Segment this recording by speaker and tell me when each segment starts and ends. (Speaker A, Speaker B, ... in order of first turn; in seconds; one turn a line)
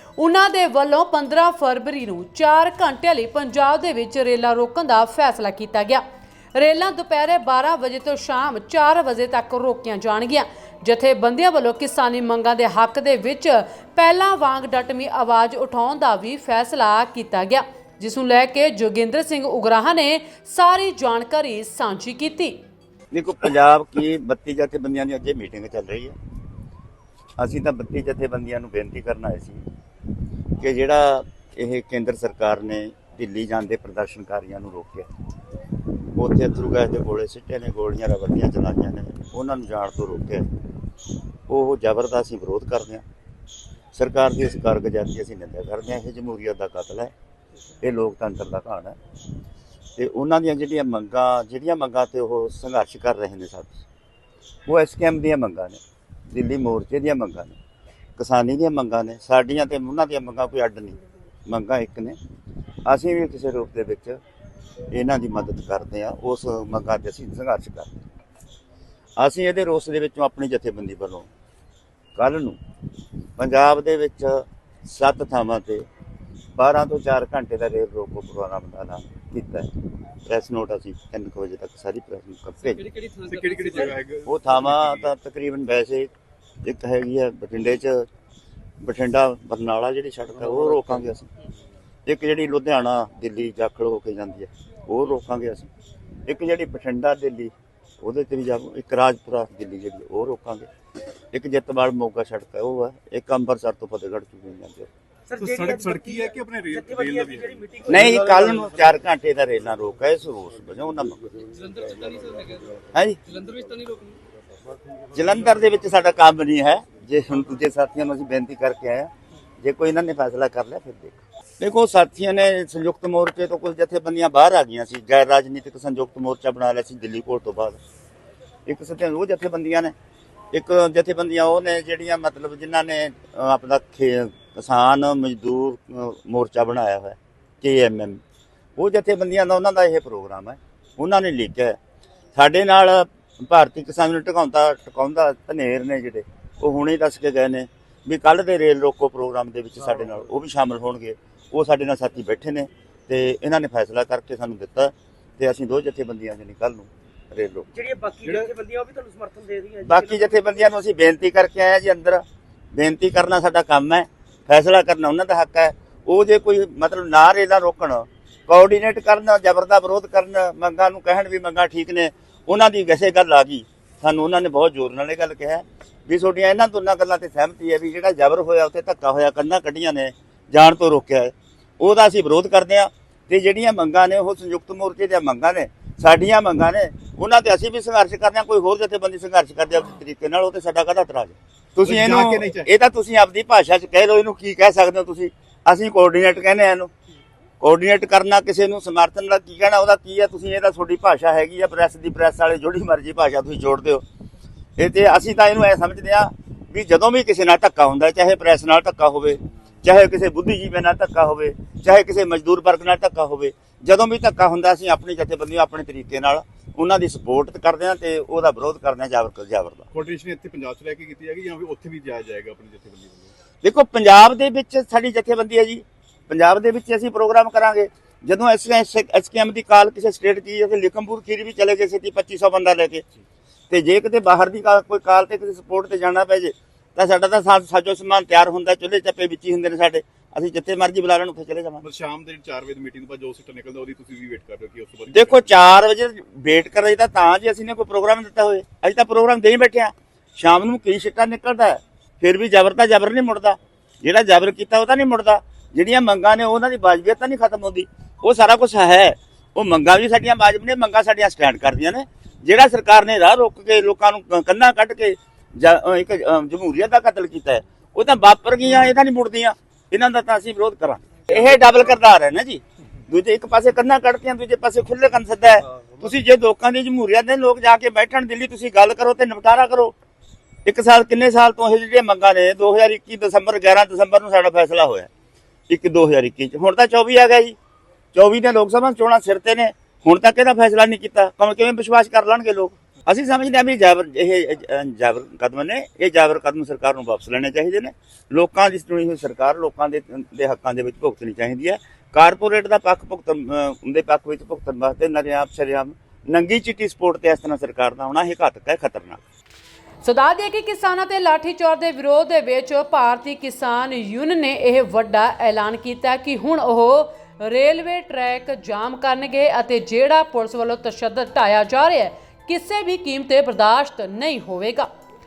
Speaker A: 0.2-6.0
Speaker A: 6.5-22.6
Speaker B: 23.1-26.2
Speaker B: 27.4-29.6
Speaker B: 30.6-35.1
Speaker B: 36.1-40.6
Speaker B: 41.5-43.0
Speaker B: 43.9-47.1
Speaker B: 47.8-49.0
Speaker B: 50.0-53.8
Speaker B: 54.7-57.6
Speaker B: 58.2-62.2
Speaker B: 62.9-64.2
Speaker B: 64.9-68.0
Speaker B: 69.2-71.3
Speaker B: 72.2-72.6
Speaker B: 73.4-75.9
Speaker B: 76.5-82.8
Speaker C: 82.7-84.0
Speaker D: 83.3-85.1
Speaker B: 84.3-86.1
Speaker B: 86.6-88.1
Speaker B: 88.8-91.3
Speaker B: 92.1-95.7
Speaker B: 96.2-100.7
Speaker B: 101.3-104.9
Speaker E: 105.3-108.9
Speaker D: 105.4-108.3
Speaker B: 107.9-111.4
Speaker C: 111.5-114.2
Speaker B: 112.9-113.2
Speaker B: 115.1-119.1
Speaker B: 119.6-127.8
Speaker B: 128.7-129.9
Speaker B: 130.5-138.2
Speaker B: 138.8-141.8
Speaker B: 142.3-157.7
Speaker E: 157.8-160.5
Speaker B: 159.8-196.9
Speaker D: 191.8-192.7
Speaker B: 197.6-204.0
Speaker B: 204.8-219.9
Speaker D: 219.9-223.3
Speaker B: 223.6-233.1
Speaker B: 233.7-241.8
Speaker D: 241.8-245.5
Speaker B: 245.1-279.9
Speaker B: 280.6-285.1
Speaker B: 285.7-287.6
Speaker B: 288.1-309.2
Speaker A: 310.0-324.9